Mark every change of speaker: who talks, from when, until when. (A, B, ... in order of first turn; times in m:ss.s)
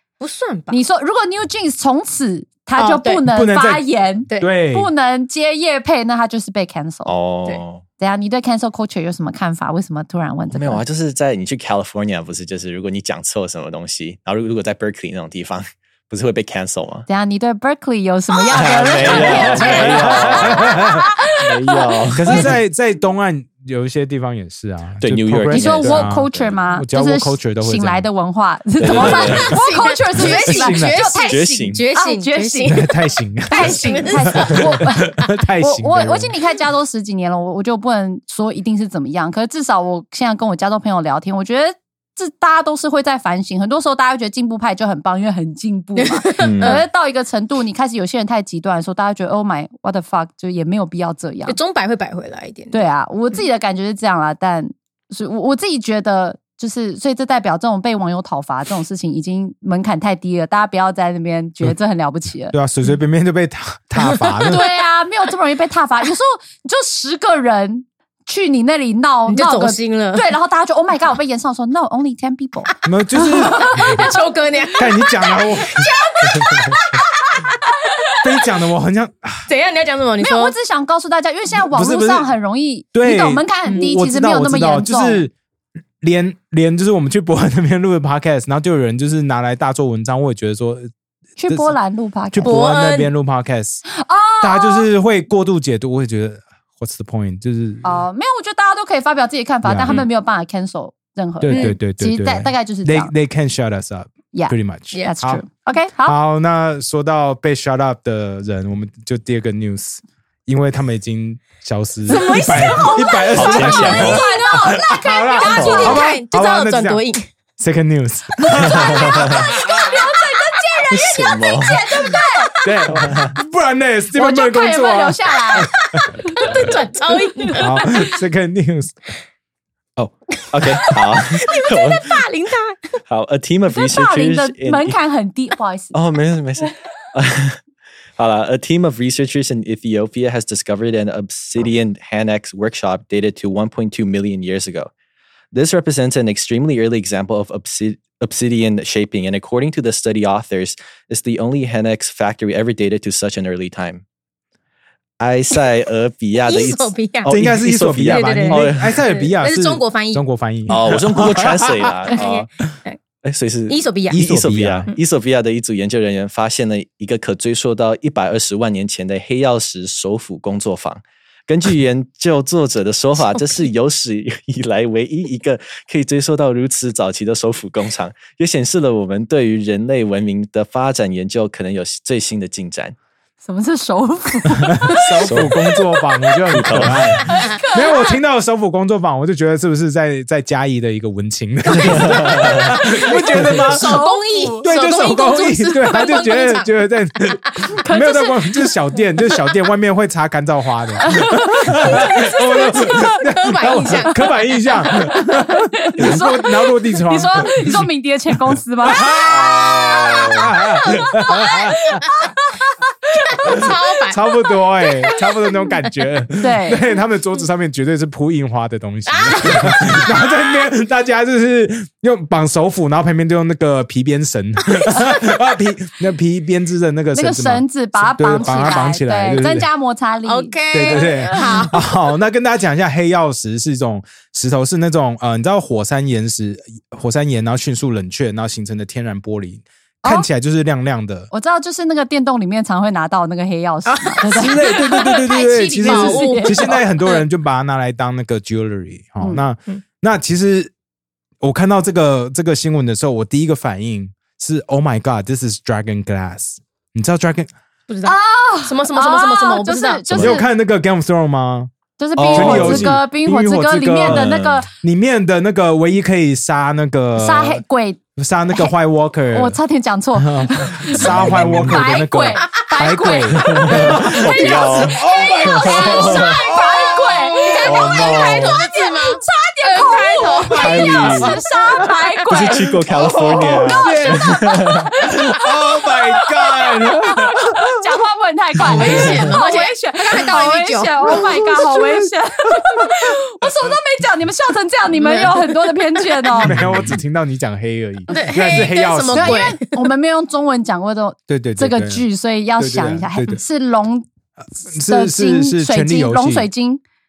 0:00.2-0:00.8 A
0:00.7-0:07.1 B
0:02.8-0:03.2 A
0:03.3-0:03.9 C
0:04.4-0:04.9 C
0:07.1-0:07.8 D
0:08.0-0:10.8 B
0:10.5-0:17.1 D
0:17.1-0:22.4 B
0:18.5-0:22.5 D
0:19.0-0:21.0 C
0:19.1-0:19.8 A
0:22.1-0:28.1 C
0:25.0-0:26.6 D
0:25.5-0:32.8 B
0:28.8-0:29.5 D
0:28.9-0:29.5 C
0:29.0-0:33.0 A
0:30.2-0:31.1 C
0:31.3-0:31.8 D
0:32.7-0:36.4 C
0:33.5-0:34.8 A
0:33.5-0:51.6 B
0:46.0-0:46.9 A
0:46.4-0:46.8 D
0:51.5-0:52.9 A
0:52.7-1:02.6 B
1:02.5-1:04.6 C
1:04.0-1:04.6 A
1:04.5-1:14.2 B
1:09.3-1:10.2 A
1:12.8-1:14.0 C
1:13.2-1:17.6 A
1:14.8-1:16.6 C
1:18.2-1:19.5 C
1:19.5-1:20.6 A
1:20.2-1:25.3 B
1:21.6-1:22.3 C
1:22.9-1:25.3 C
1:26.0-1:30.9 C
1:31.4-1:32.6 B
1:31.5-1:31.8 C
1:32.3-1:33.8 C
1:32.4-1:33.1 A
1:33.9-1:34.9 B
1:34.4-1:38.0 C
1:37.8-1:43.1 B
1:39.6-1:40.0 C
1:41.4-1:45.4 C
1:41.5-1:41.8 A
1:44.3-1:46.2 B
1:46.0-1:57.0 C
1:52.1-1:54.8 A
1:52.1-1:56.1 B
1:53.3-1:54.2 D
1:55.3-1:57.3 A
1:55.5-1:56.0 D
1:57.6-1:59.9 C
1:58.6-1:59.5 D
1:58.8-2:02.6 B
2:00.7-2:02.8 A
2:00.9-2:01.8 D
2:02.6-2:06.0 C
2:02.9-2:03.4 D
2:04.1-2:05.7 B
2:05.9-2:07.9 A
2:07.6-2:09.0 C
2:10.0-2:12.2 D
2:10.6-2:13.0 A
2:13.1-2:15.0 D
2:13.7-2:16.0 B
2:15.9-2:17.6 D
2:18.2-2:24.9 D
2:25.5-2:34.0 D
2:35.2-2:39.0 D
2:36.4-2:37.4 A
2:37.3-2:42.0 C
2:38.1-2:40.2 A
2:40.7-2:42.5 D
2:42.0-2:43.0 A
2:43.2-3:03.0 D
2:43.7-2:44.2 A
2:44.1-2:44.9 C
2:53.4-2:53.6 A
3:03.4-3:06.4 B
3:04.8-3:27.9 C
3:05.2-3:05.6 D
3:06.5-3:07.3 D
3:07.2-3:08.2 B
3:11.8-3:12.7 D
3:12.5-3:16.8 A
3:12.7-3:14.7 B
3:17.8-3:18.7 B
3:21.0-3:23.2 B
3:21.8-3:24.3 A
3:24.8-3:33.7 B
3:28.8-3:32.0 C
3:29.4-3:30.4 D
3:33.3-3:34.4 A
3:33.4-3:49.7 C
3:35.2-3:35.8 A
3:36.4-3:36.9 B
3:39.1-3:40.3 A
3:47.1-3:51.7 B
3:50.3-3:51.8 A
3:50.7-4:01.3 C
4:01.3-4:06.8 B
4:03.9-4:05.2 A
4:04.3-4:10.7 C
4:05.8-4:07.2 A
4:11.4-4:17.5 C
4:17.9-4:20.2 A
4:18.1-4:20.5 B
4:20.1-4:27.6 C
4:22.0-4:24.7 B
4:22.2-4:23.0 D
4:24.0-4:24.6 D
4:27.2-4:28.0 B
4:28.2-4:29.6 C
4:29.3-4:42.7 B
4:30.2-4:38.5 C
4:30.9-4:31.8 D
4:33.4-4:35.0 D
4:34.3-4:42.0 A
4:35.8-4:36.3 D
4:37.7-4:38.6 D
4:40.5-4:41.9 C
4:40.6-4:41.3 D
4:42.3-4:44.9 D
4:42.8-4:47.7 C
4:43.3-4:56.6 B
4:48.6-4:51.5 A
4:48.7-4:49.1 C
4:51.1-4:52.9 C
4:54.9-4:56.3 A
4:56.4-4:59.6 C
4:58.1-4:59.9 A
4:59.1-5:04.1 B
5:01.3-5:02.0 C
5:02.6-5:03.4 C
5:04.6-5:06.5 C
5:04.7-5:06.8 B